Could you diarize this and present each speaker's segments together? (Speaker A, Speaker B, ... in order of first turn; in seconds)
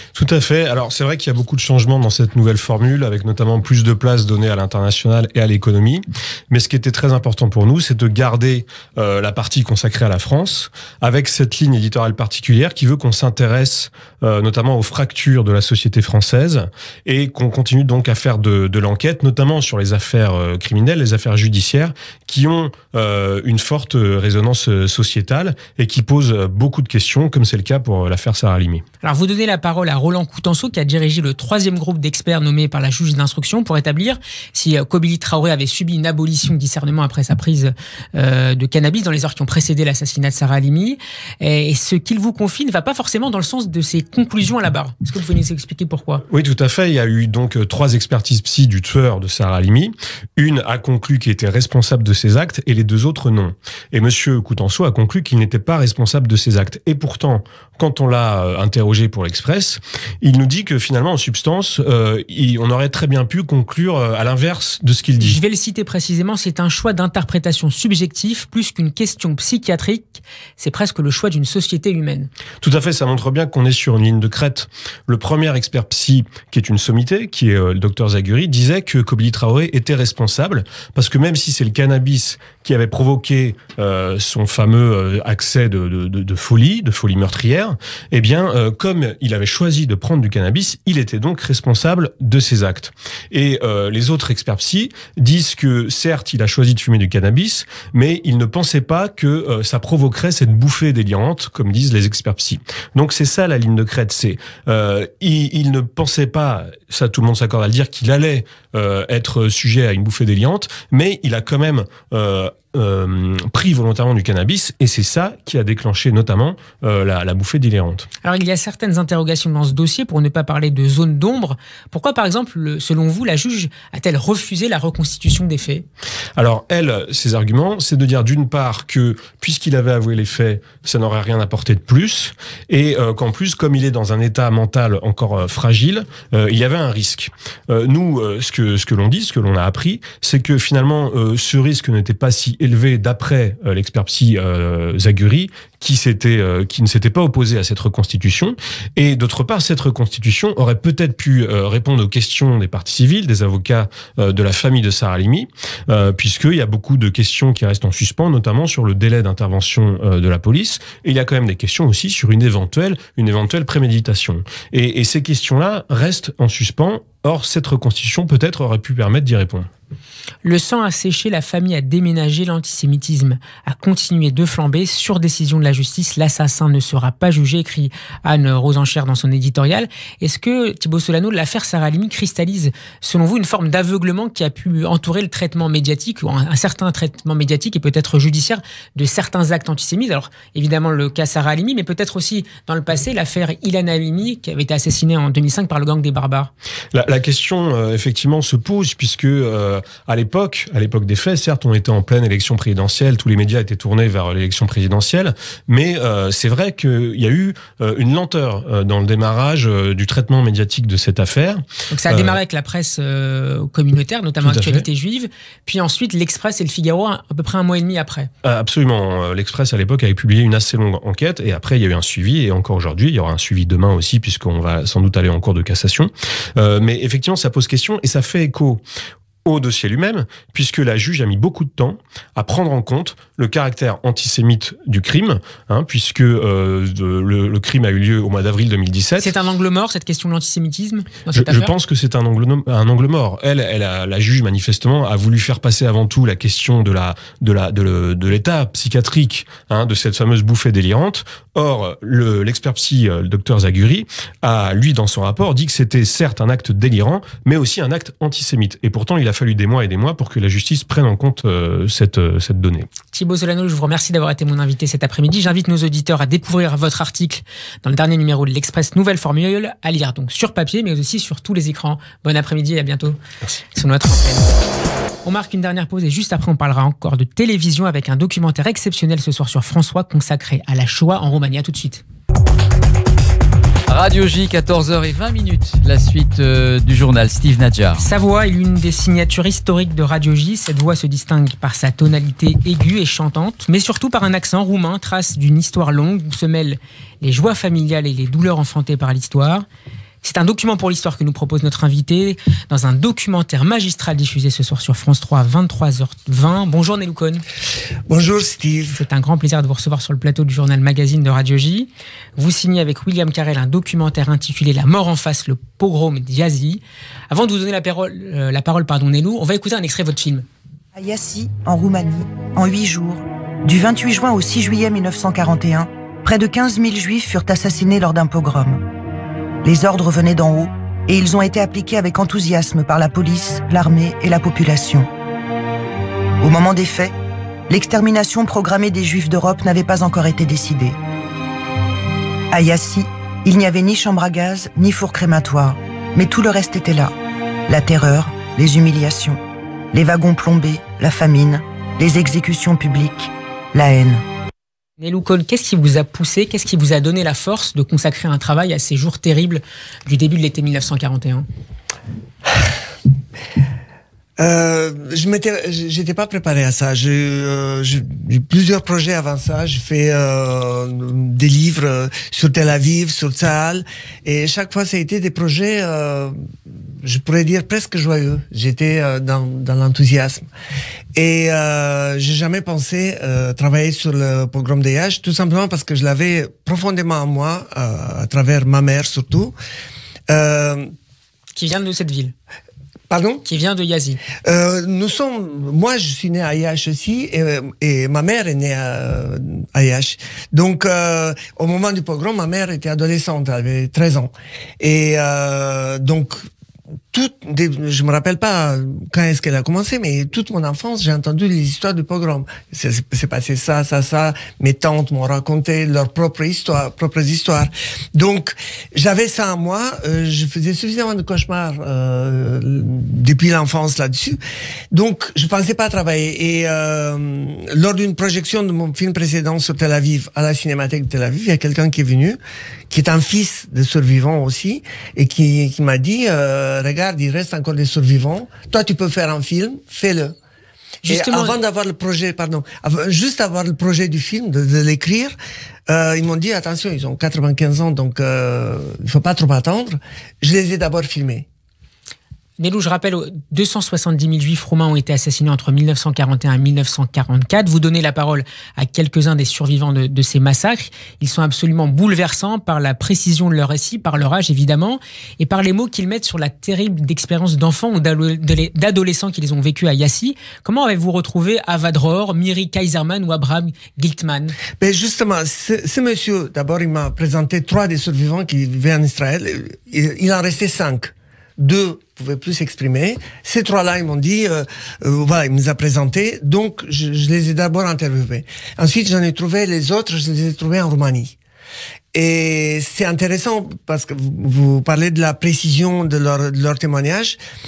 Speaker A: 0.1-28.8, 46.3-65.4, 72.6-118.1, 126.3-169.7, 196.9-212.4, 214.4-214.8, 218.4-228.8, 229.4-239.3, 241.3-262.9
Speaker B: 29.0-46.2, 65.2-72.3, 118.2-125.8, 170.4-196.5, 211.9-218.3, 239.2-241.7, 263.1-273.2, 273.7-274.5, 275.2-282.0, 288.0-299.6, 300.2-307.4, 308.9-320.4, 355.0-361.4, 391.6-392.3, 393.4-394.2, 441.0-441.6, 452.6-474.6
Speaker C: 283.9-288.1
Speaker D: 308.1-309.0, 364.4-376.4, 377.0-380.5, 381.1-389.5, 390.3-390.9, 393.1-393.4, 394.4-406.5, 407.1-424.4, 424.9-432.4, 432.9-440.4, 441.1-445.3, 445.9-451.4, 474.8-491.4, 492.1-497.4
Speaker E: 320.9-328.8, 329.6-335.1, 336.4-337.1, 337.7-341.0, 342.5-347.1, 347.7-349.4, 349.9-354.2